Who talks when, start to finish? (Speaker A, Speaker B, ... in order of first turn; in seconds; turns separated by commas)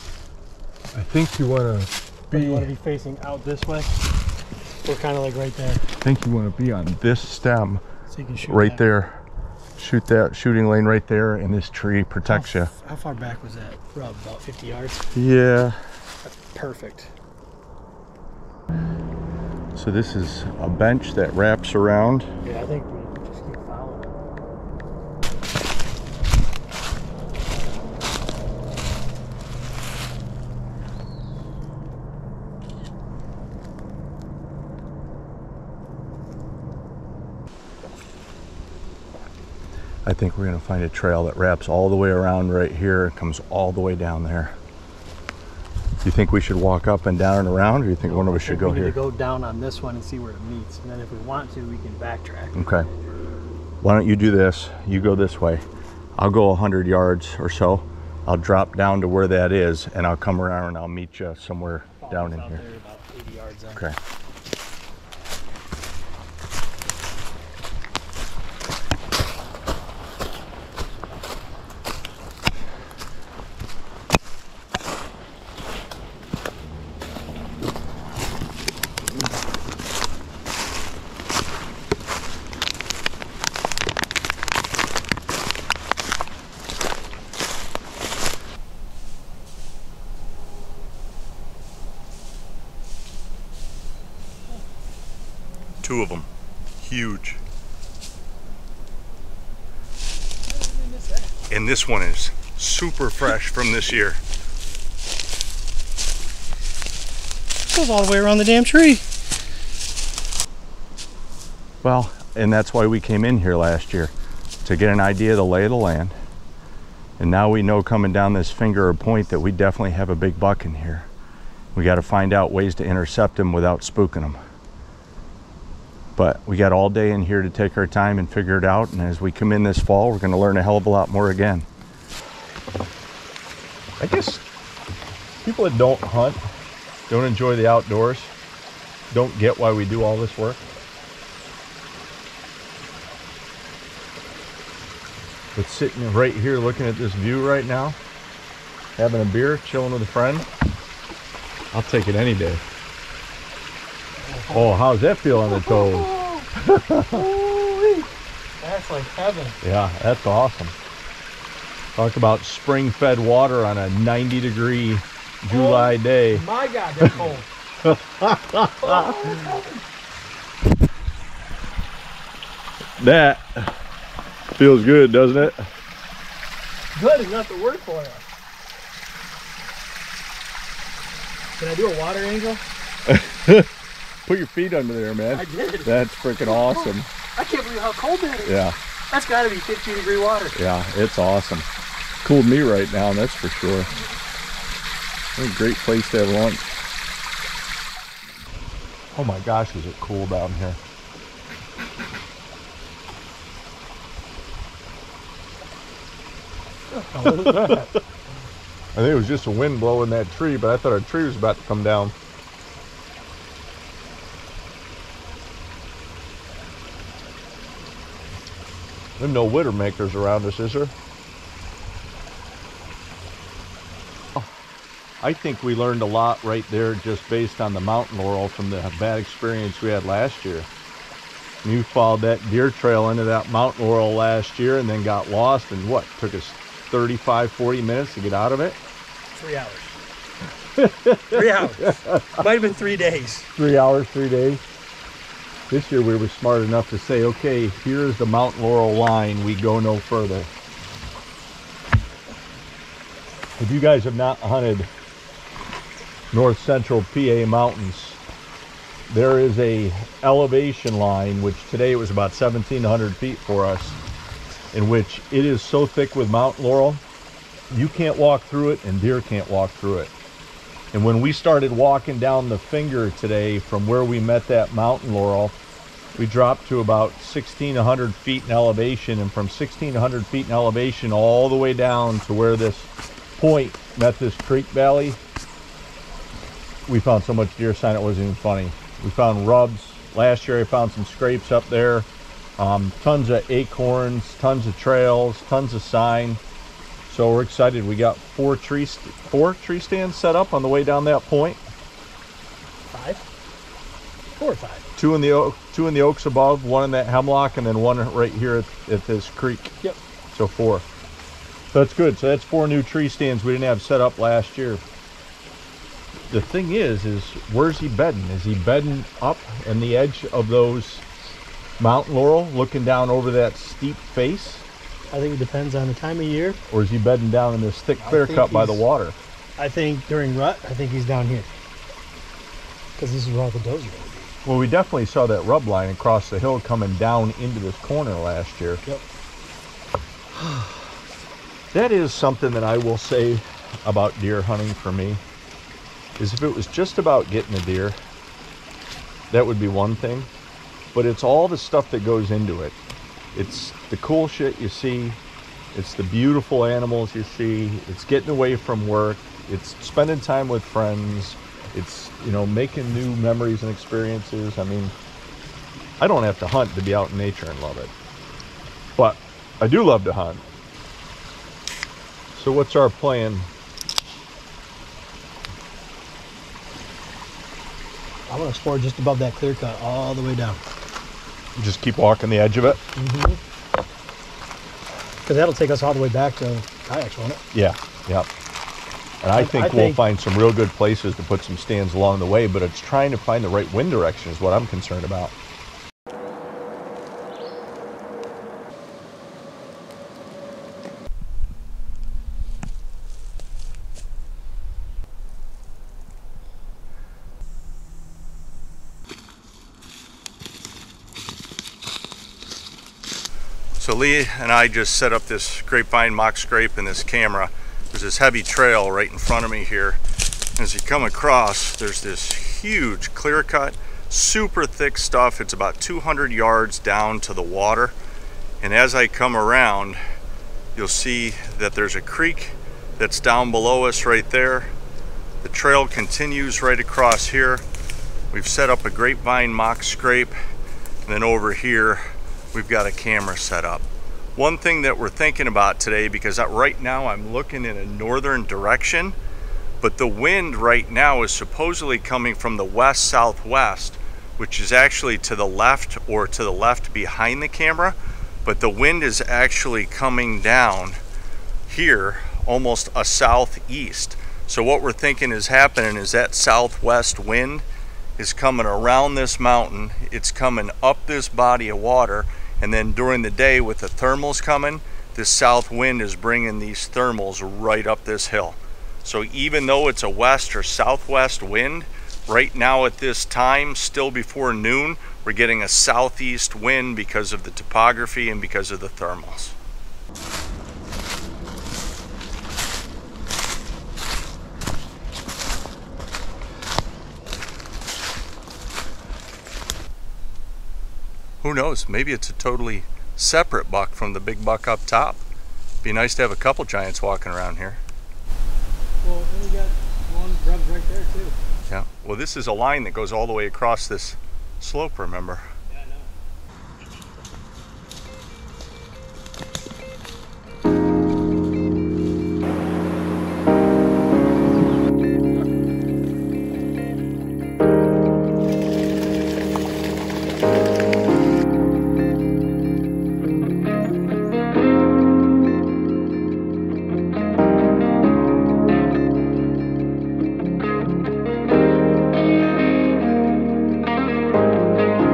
Speaker A: 0.9-2.7, Speaker B: 2.3-4.0, Speaker B: 4.8-5.9, Speaker A: 6.0-7.8, Speaker B: 8.1-8.8, Speaker A: 8.4-9.2, Speaker A: 9.8-12.7, Speaker B: 12.2-15.1, Speaker A: 15.1-15.8, Speaker B: 16.2-17.1, Speaker A: 19.8-22.3, Speaker B: 22.4-24.2, Speaker A: 40.1-44.6, Speaker A: 46.0-49.0, Speaker B: 48.0-52.6, Speaker A: 52.5-52.9, Speaker A: 53.8-55.6, Speaker A: 56.2-62.6, Speaker B: 62.0-63.8, Speaker A: 95.8-96.3, Speaker A: 96.8-97.4, Speaker B: 100.5-101.4, Speaker A: 101.5-104.2, Speaker B: 107.7-109.0, Speaker A: 111.8-114.1, Speaker A: 114.6-116.1, Speaker A: 117.2-121.1, Speaker A: 121.8-124.4, Speaker A: 126.2-131.7, Speaker A: 134.0-134.4, Speaker A: 135.4-136.4, Speaker A: 137.1-138.3, Speaker A: 139.1-140.7, Speaker A: 145.6-148.0, Speaker A: 149.0-150.5, Speaker A: 151.7-152.6, Speaker B: 154.2-156.5, Speaker A: 154.5-157.3, Speaker B: 157.1-158.1, Speaker B: 158.6-159.6, Speaker A: 159.6-160.8, Speaker A: 162.0-166.4, Speaker B: 165.5-167.5, Speaker A: 167.8-169.6, Speaker B: 168.8-169.8, Speaker A: 173.0-173.7, Speaker A: 174.6-175.7, Speaker B: 176.9-178.2, Speaker B: 181.6-182.6, Speaker A: 183.1-183.7, Speaker A: 184.3-187.1, Speaker B: 185.3-188.6, Speaker A: 188.4-188.8, Speaker B: 189.1-190.6, Speaker A: 190.6-191.7, Speaker A: 192.2-193.9, Speaker A: 195.4-196.7, Speaker A: 199.1-200.8, Speaker B: 206.9-208.0, Speaker A: 207.2-207.9, Speaker A: 208.9-212.1, Speaker A: 219.2-220.9, Speaker A: 225.2-230.7, Speaker A: 231.6-238.8, Speaker B: 239.3-240.0, Speaker A: 240.8-242.4, Speaker B: 241.3-243.5, Speaker A: 243.6-244.6, Speaker A: 245.7-250.5, Speaker A: 253.6-254.9, Speaker A: 256.3-258.2, Speaker A: 259.1-264.0, Speaker A: 264.7-267.0, Speaker A: 267.7-270.1, Speaker A: 270.9-275.6, Speaker A: 276.2-285.2, Speaker A: 286.9-296.4, Speaker A: 297.1-301.6, Speaker B: 302.9-303.2, Speaker B: 304.4-304.9, Speaker A: 305.0-309.7, Speaker A: 310.3-310.9, Speaker A: 311.7-314.8, Speaker A: 316.3-321.1, Speaker A: 321.8-324.7, Speaker B: 325.1-326.6, Speaker A: 326.7-329.2, Speaker B: 328.0-328.9, Speaker B: 329.6-331.5, Speaker B: 333.0-334.3, Speaker A: 334.4-338.8, Speaker A: 340.4-340.8, Speaker A: 341.7-345.2, Speaker A: 346.2-348.0, Speaker A: 349.3-350.3, Speaker A: 350.9-352.8, Speaker A: 353.4-355.2, Speaker A: 355.7-364.9, Speaker A: 366.0-367.9, Speaker A: 369.0-370.4, Speaker A: 372.3-373.5, Speaker B: 378.3-380.6, Speaker A: 381.6-382.8, Speaker B: 383.0-383.4, Speaker B: 385.2-387.4, Speaker A: 387.5-388.3, Speaker A: 389.2-395.3, Speaker B: 389.4-390.0, Speaker A: 413.8-420.0, Speaker A: 420.6-427.9, Speaker A: 428.6-430.0, Speaker A: 430.8-434.7, Speaker A: 435.4-437.6, Speaker A: 438.3-440.4, Speaker A: 441.1-442.0, Speaker A: 442.5-449.2, Speaker A: 449.8-461.0, Speaker A: 461.7-467.6, Speaker A: 468.2-489.6, Speaker A: 501.4-505.2, Speaker A: 505.8-507.8, Speaker B: 509.0-511.4, Speaker A: 511.7-515.5, Speaker B: 515.7-516.1